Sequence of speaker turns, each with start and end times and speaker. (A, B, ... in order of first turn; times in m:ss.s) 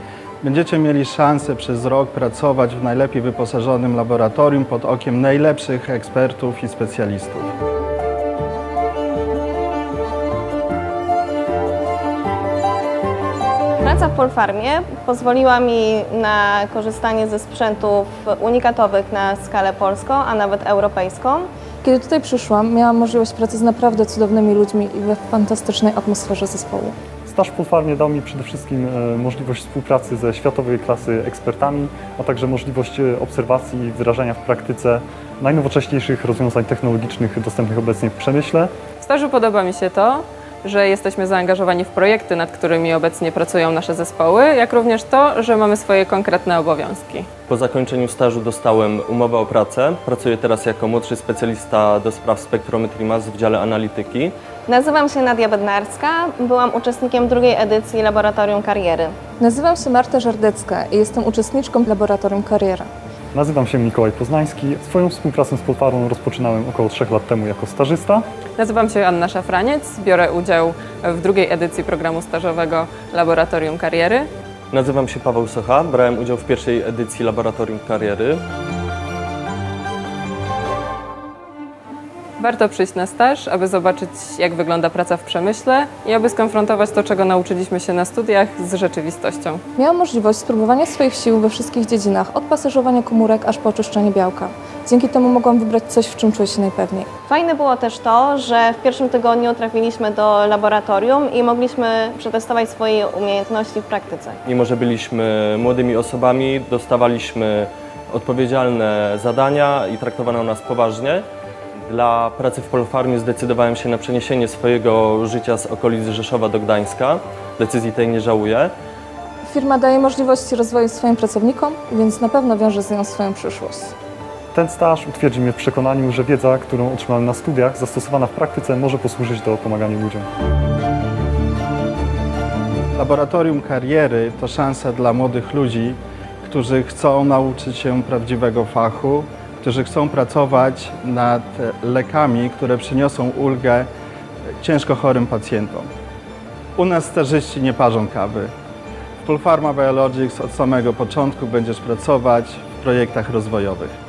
0:00.4-0:07.5 A
0:13.8-0:21.5 B
0:21.8-0:27.0 C
0:27.3-0:38.7 D
0:39.0-0:47.3 E
0:47.5-0:54.3 F
0:54.7-0:59.2 B
0:59.4-1:02.9 C
1:03.4-1:08.2 D
1:08.6-1:14.3 E
1:14.7-1:18.4 F
1:22.4-1:29.6 E
1:29.8-1:37.1 C
1:37.3-1:44.4 B
1:44.5-1:51.2 F
1:51.9-1:58.7 F
1:59.4-2:03.9 C
2:04.5-2:10.3 D
2:13.0-2:23.9 A
2:24.6-2:25.9 A
2:26.8-2:28.5 A
2:29.2-2:34.0 A